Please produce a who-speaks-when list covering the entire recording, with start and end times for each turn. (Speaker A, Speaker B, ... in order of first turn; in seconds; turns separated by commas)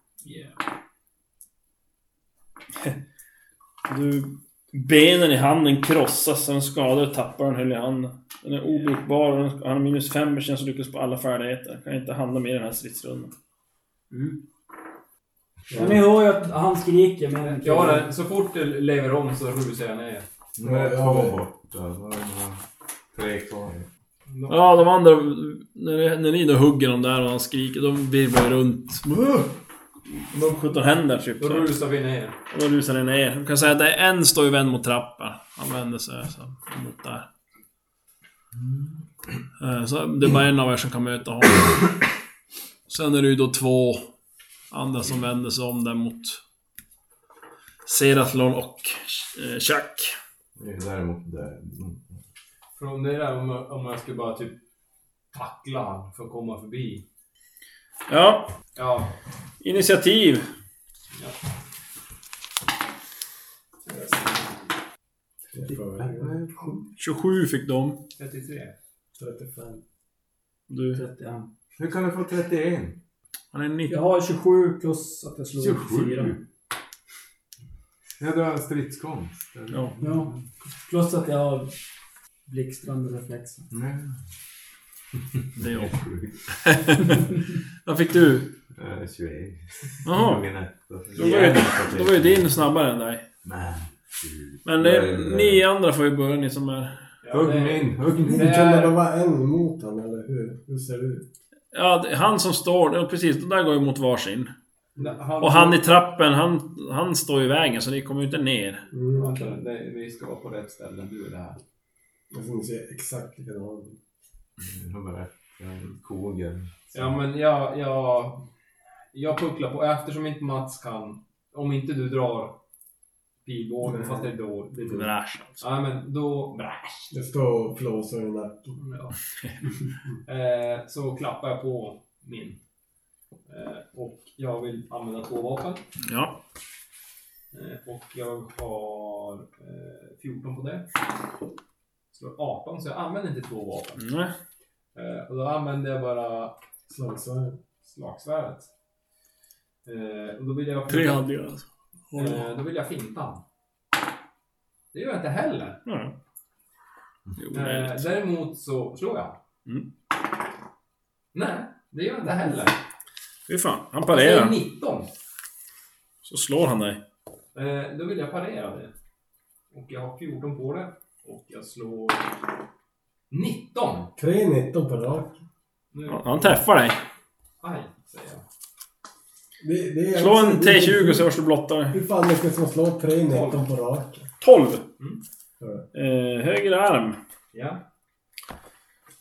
Speaker A: 0.2-0.6, Speaker B: 3.9-13.3, Speaker C: 14.1-14.4, Speaker D: 15.7-16.1, Speaker C: 15.7-18.1, Speaker A: 17.4-20.2, Speaker E: 20.6-23.9, Speaker D: 20.6-21.4, Speaker A: 24.3-24.7, Speaker B: 24.5-29.5, Speaker B: 30.1-31.8, Speaker A: 31.4-32.4, Speaker B: 32.5-37.3, Speaker E: 38.5-39.0, Speaker B: 39.6-42.0, Speaker B: 42.9-44.1, Speaker B: 44.7-46.4, Speaker B: 47.8-50.2, Speaker E: 50.5-52.1, Speaker A: 52.8-54.6, Speaker A: 55.3-57.0, Speaker B: 58.1-58.5, Speaker A: 58.7-59.1, Speaker B: 59.6-60.5, Speaker A: 63.9-64.5, Speaker D: 65.5-66.4, Speaker E: 66.1-66.9, Speaker B: 67.0-68.0, Speaker A: 68.2-68.7, Speaker D: 69.2-69.8, Speaker B: 70.7-71.0, Speaker C: 70.9-71.5, Speaker E: 71.8-73.0, Speaker B: 73.5-74.0, Speaker C: 73.9-76.4, Speaker E: 75.6-76.4, Speaker E: 78.2-80.3, Speaker B: 79.7-80.0, Speaker C: 80.0-80.3, Speaker C: 80.8-81.7, Speaker C: 82.5-83.7, Speaker E: 83.7-84.2, Speaker E: 85.4-86.5, Speaker B: 85.6-86.0, Speaker B: 86.5-88.5, Speaker E: 88.7-92.6, Speaker B: 90.0-90.5, Speaker B: 91.1-93.2, Speaker A: 91.2-91.6, Speaker E: 93.4-95.6, Speaker B: 94.6-97.0, Speaker A: 97.2-99.0, Speaker E: 97.3-98.5, Speaker D: 98.1-101.3, Speaker B: 101.7-104.5, Speaker A: 105.0-105.8, Speaker B: 105.4-108.8, Speaker D: 108.9-109.4, Speaker A: 109.1-111.6, Speaker D: 112.3-114.0, Speaker E: 114.6-117.1, Speaker A: 116.9-118.4, Speaker A: 119.1-122.6, Speaker A: 123.4-127.1, Speaker D: 123.8-124.3, Speaker B: 124.8-125.7, Speaker D: 127.1-128.8, Speaker A: 128.8-129.2, Speaker A: 130.2-132.6, Speaker A: 133.5-135.8, Speaker B: 136.0-136.4, Speaker A: 137.5-140.8, Speaker A: 142.1-144.0, Speaker B: 144.0-144.3, Speaker A: 144.9-146.6, Speaker D: 146.9-147.6, Speaker A: 147.8-148.7, Speaker A: 149.8-151.2, Speaker B: 150.9-152.4, Speaker A: 152.1-153.4, Speaker A: 154.9-155.8, Speaker B: 155.8-156.1, Speaker B: 157.4-158.1, Speaker A: 157.5-159.4, Speaker A: 161.3-162.8, Speaker B: 163.5-164.6, Speaker A: 164.1-165.1, Speaker B: 166.2-167.0, Speaker A: 167.5-168.9, Speaker A: 169.7-172.3, Speaker A: 173.3-174.1, Speaker D: 174.2-175.4, Speaker A: 175.9-176.6, Speaker B: 176.1-177.0, Speaker A: 177.6-178.4, Speaker D: 179.6-181.3, Speaker B: 180.1-182.0, Speaker D: 181.9-184.3, Speaker A: 183.3-183.6, Speaker B: 184.4-184.8, Speaker D: 185.6-185.8, Speaker B: 185.9-187.2, Speaker A: 187.5-187.8